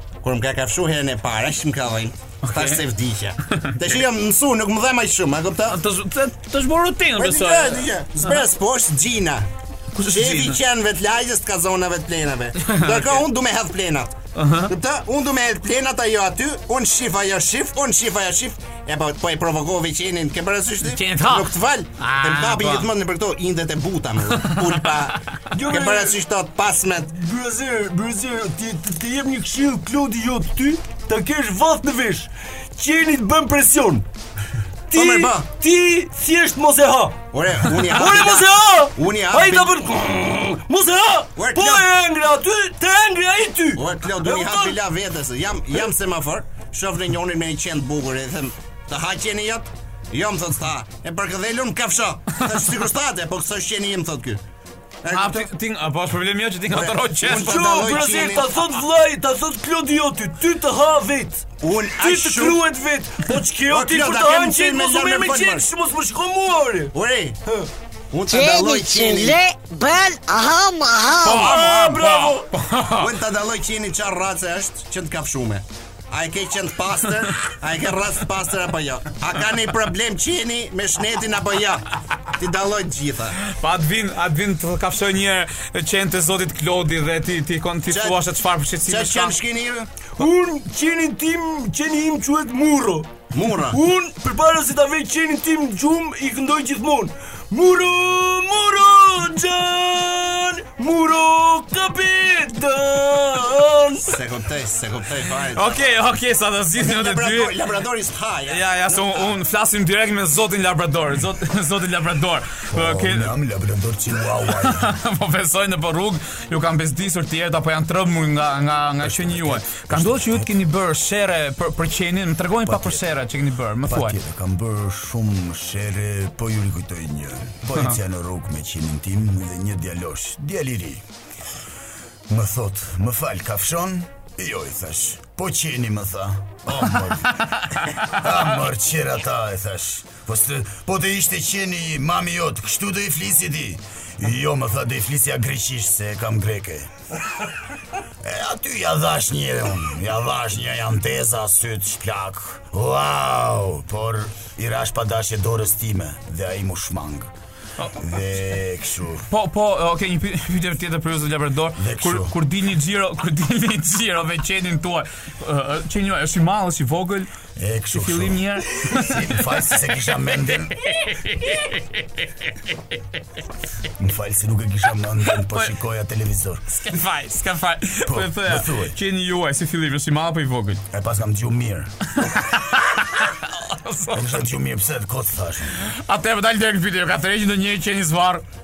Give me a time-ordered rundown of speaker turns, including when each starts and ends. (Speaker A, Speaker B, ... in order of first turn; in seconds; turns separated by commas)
Speaker A: 0.2-5.8, Speaker B: 2.4-2.8, Speaker B: 5.7-8.4, Speaker A: 7.2-9.5, Speaker B: 9.9-10.6, Speaker A: 10.1-27.1, Speaker B: 12.6-13.2, Speaker B: 14.3-14.7, Speaker B: 20.8-22.9, Speaker B: 24.4-24.9, Speaker C: 25.5-26.2, Speaker C: 27.1-34.0, Speaker C: 34.9-37.2, Speaker A: 34.9-35.5, Speaker A: 37.3-39.7, Speaker C: 37.9-44.8, Speaker A: 41.4-41.9, Speaker A: 43.8-54.4, Speaker A: 55.0-55.5, Speaker B: 55.1-58.2, Speaker A: 56.7-58.8, Speaker C: 57.3-61.4, Speaker A: 61.6-62.6, Speaker C: 62.0-66.9, Speaker A: 63.7-65.7, Speaker A: 66.9-67.4, Speaker A: 68.1-69.4, Speaker D: 68.3-71.6, Speaker B: 71.2-73.1, Speaker C: 71.3-72.5, Speaker A: 71.4-72.0, Speaker A: 73.0-83.4, Speaker B: 83.4-89.3, Speaker A: 87.9-88.2, Speaker A: 88.9-89.9, Speaker C: 90.2-93.1, Speaker A: 93.3-93.8, Speaker C: 93.7-104.1, Speaker A: 104.1-105.8, Speaker B: 105.4-107.6, Speaker A: 106.8-109.3, Speaker B: 108.5-113.4, Speaker E: 112.7-115.0, Speaker B: 114.5-124.2, Speaker E: 119.0-120.5, Speaker E: 122.6-123.0, Speaker E: 123.8-131.0, Speaker E: 132.3-146.9, Speaker E: 148.2-157.3, Speaker E: 158.0-159.3, Speaker B: 159.3-167.3, Speaker E: 161.8-162.3, Speaker E: 167.6-170.8, Speaker B: 167.9-170.0, Speaker B: 170.8-172.5, Speaker E: 174.0-176.6, Speaker B: 175.2-175.7, Speaker B: 176.7-180.8, Speaker E: 178.1-178.9, Speaker E: 180.9-181.9, Speaker B: 182.2-184.3, Speaker E: 184.1-185.9, Speaker B: 185.8-188.4